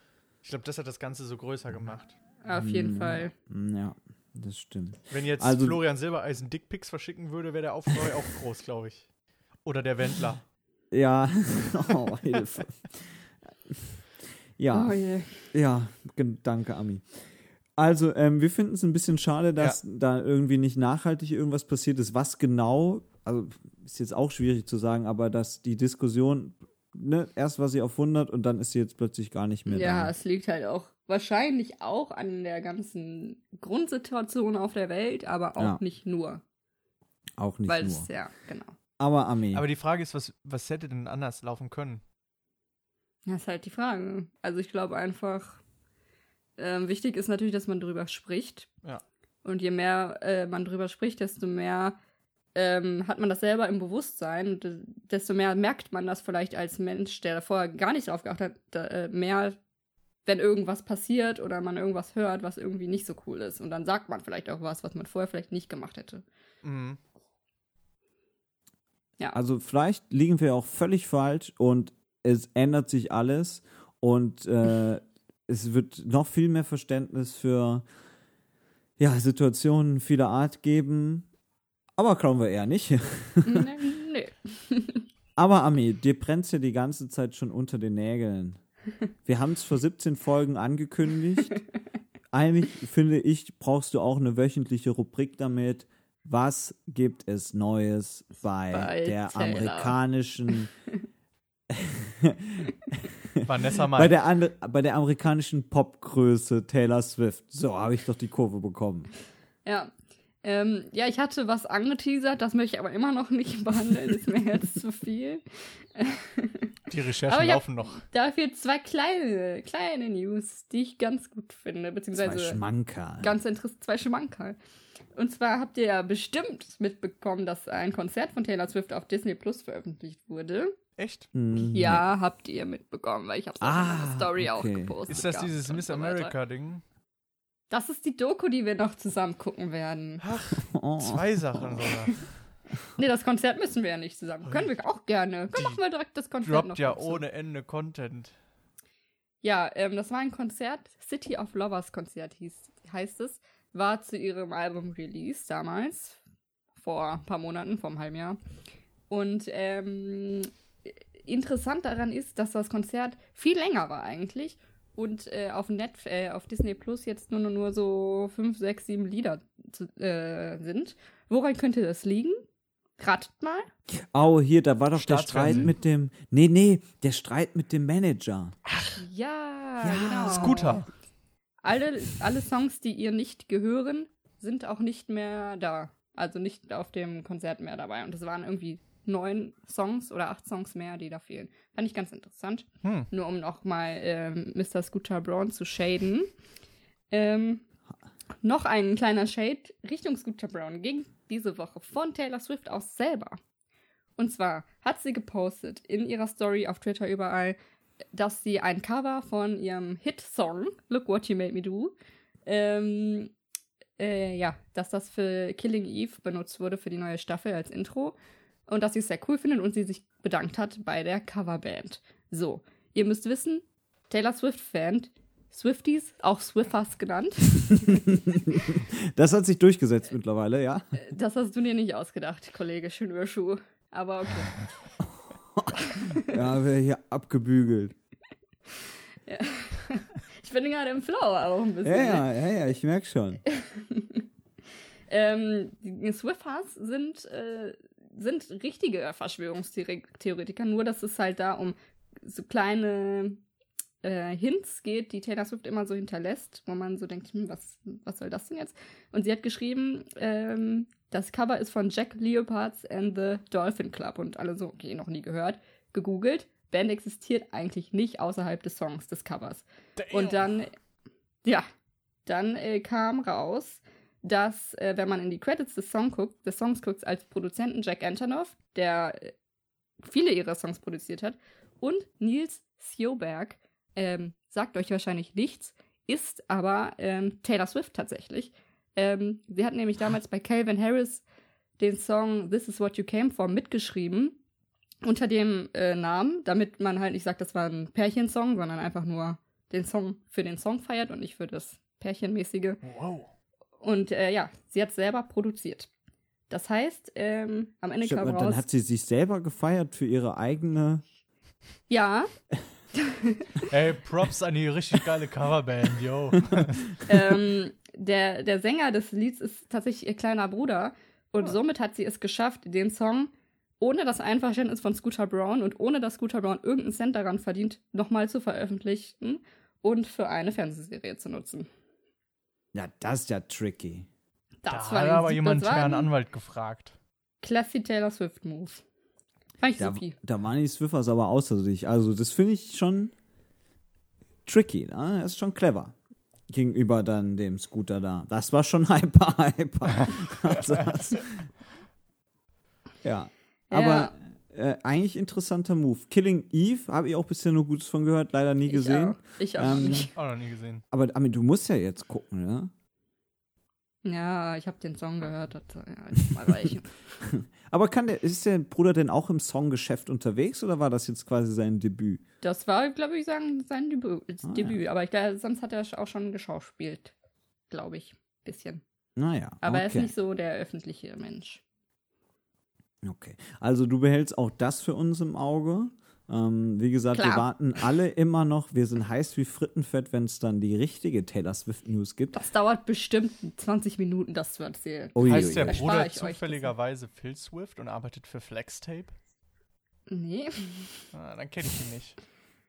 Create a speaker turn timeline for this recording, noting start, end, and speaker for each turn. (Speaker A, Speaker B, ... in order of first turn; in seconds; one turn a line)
Speaker A: 0.4-2.2
Speaker B: 2.4-3.3
Speaker C: 2.5-5.8
Speaker A: 5.1-9.1
Speaker A: 9.6-10.4
Speaker C: 10.9-14.0
Speaker C: 14.6-15.0
Speaker B: 14.7-15.5
Speaker C: 15.5-17.1
Speaker C: 17.8-30.1
Speaker B: 29.7-36.4
Speaker C: 37.4-38.1
Speaker B: 37.7-38.8
Speaker C: 39.0-39.6
Speaker A: 39.5-42.0
Speaker B: 43.3-45.6
Speaker B: 46.6-48.7
Speaker B: 49.5-52.0
Speaker B: 52.5-59.6
Speaker B: 60.3-66.2
Speaker A: 66.6-67.0
Speaker C: 69.3-77.8
Speaker C: 79.0-81.3
Speaker C: 82.0-83.7
Speaker B: 83.5-85.1
Speaker C: 85.4-88.6
Speaker C: 89.2-91.6
Speaker C: 92.3-100.7
Speaker B: 98.7-100.0
Speaker C: 101.7-109.1
Speaker A: 103.4-104.2
Speaker B: 109.7-109.9
Speaker B: 110.4-115.4
Speaker B: 116.0-116.7
Speaker A: 116.9-118.0
Speaker B: 117.3-122.6
Speaker C: 122.2-123.3
Speaker B: 123.2-124.6
Speaker B: 125.2-130.8
Speaker A: 131.0-131.3
Speaker C: 131.3-132.1
Speaker B: 131.7-136.3
Speaker C: 133.6-134.9
Speaker A: 135.1-136.8
Speaker B: 137.7-140.2
Speaker A: 140.2-142.2
Speaker C: 140.6-141.6
Speaker B: 143.0-147.2
Speaker A: 146.4-148.3
Speaker B: 149.4-156.2
Speaker B: 156.8-158.4
Speaker B: 159.1-172.4
Speaker B: 173.0-173.7
Speaker C: 173.9-178.6
Speaker A: 174.9-175.7
Speaker A: 178.7-179.0
Speaker B: 179.0-180.8
Speaker C: 179.8-180.6
Speaker A: 180.3-180.9
Speaker B: 181.6-196.3
Speaker B: 197.1-197.6
Speaker B: 198.4-203.4
Speaker B: 204.2-207.6
Speaker B: 208.1-211.9
Speaker B: 212.5-213.3
Speaker B: 214.0-218.2
Speaker B: 218.7-228.0
Speaker C: 227.9-231.0
Speaker B: 231.0-234.7
Speaker C: 235.0-237.9
Speaker B: 235.8-236.4
Speaker B: 239.3-242.3
Speaker C: 241.8-243.4
Speaker B: 243.5-244.2
Speaker B: 245.1-253.4
Speaker B: 254.0-270.7
Speaker A: 270.0-270.6
Speaker B: 272.3-279.3
Speaker B: 280.0-291.2
Speaker B: 291.8-294.4
Speaker B: 295.0-302.8
Speaker A: 302.8-303.3
Speaker B: 303.8-305.9
Speaker B: 306.5-308.6
Speaker C: 308.0-311.0
Speaker B: 311.9-312.3
Speaker B: 313.0-313.6
Speaker A: 313.6-316.9
Speaker B: 317.1-331.7
Speaker C: 332.7-334.1
Speaker B: 334.6-336.1
Speaker A: 334.7-337.0
Speaker B: 337.4-338.8
Speaker B: 339.6-340.2
Speaker C: 339.8-343.1
Speaker C: 344.5-345.9
Speaker C: 346.5-351.5
Speaker C: 353.0-360.1
Speaker B: 353.7-354.1
Speaker B: 358.7-360.1
Speaker A: 359.7-360.8
Speaker C: 360.9-362.7
Speaker B: 364.1-367.0
Speaker C: 367.2-372.2
Speaker B: 372.4-377.1
Speaker C: 374.5-374.8
Speaker B: 377.7-378.8
Speaker C: 379.2-380.1
Speaker B: 379.6-381.6
Speaker C: 383.0-392.4
Speaker B: 387.1-387.8
Speaker B: 392.4-396.7
Speaker C: 395.1-395.9
Speaker A: 395.2-399.1
Speaker B: 400.1-401.0
Speaker A: 401.1-402.2